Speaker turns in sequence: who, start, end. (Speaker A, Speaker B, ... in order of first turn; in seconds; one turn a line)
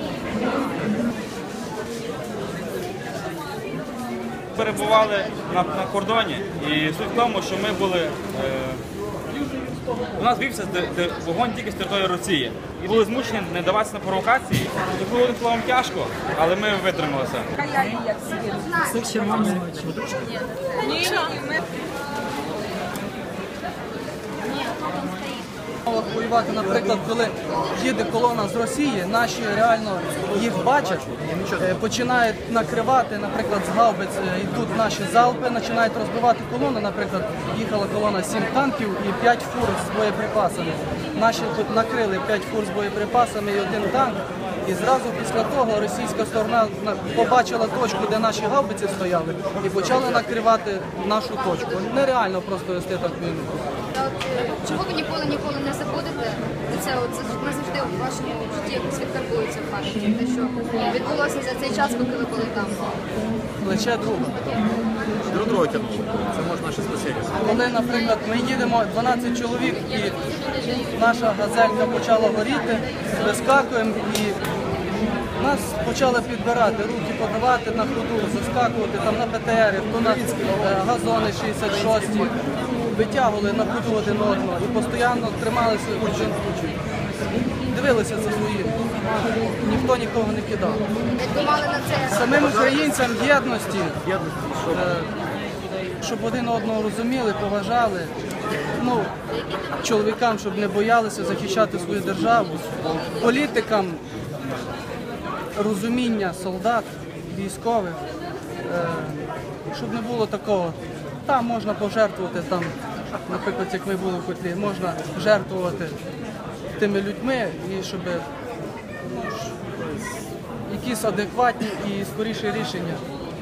Speaker A: 4.5-8.8
Speaker A: 10.1-18.0
Speaker B: 18.4-19.1
Speaker C: 25.9-53.6
Speaker B: 53.9-62.9
Speaker C: 63.6-64.4
Speaker D: 65.3-67.3
Speaker C: 67.4-74.4
Speaker C: 75.4-86.8
Speaker C: 87.7-88.8
Speaker C: 89.5-90.8
Speaker B: 91.2-92.4
Speaker C: 92.1-94.1
Speaker D: 94.3-94.5
Speaker C: 94.6-95.1
Speaker C: 96.0-98.1
Speaker C: 98.7-99.1
Speaker C: 99.7-104.0
Speaker C: 105.5-108.0
Speaker C: 108.6-116.0
Speaker C: 116.8-118.3
Speaker C: 120.7-123.0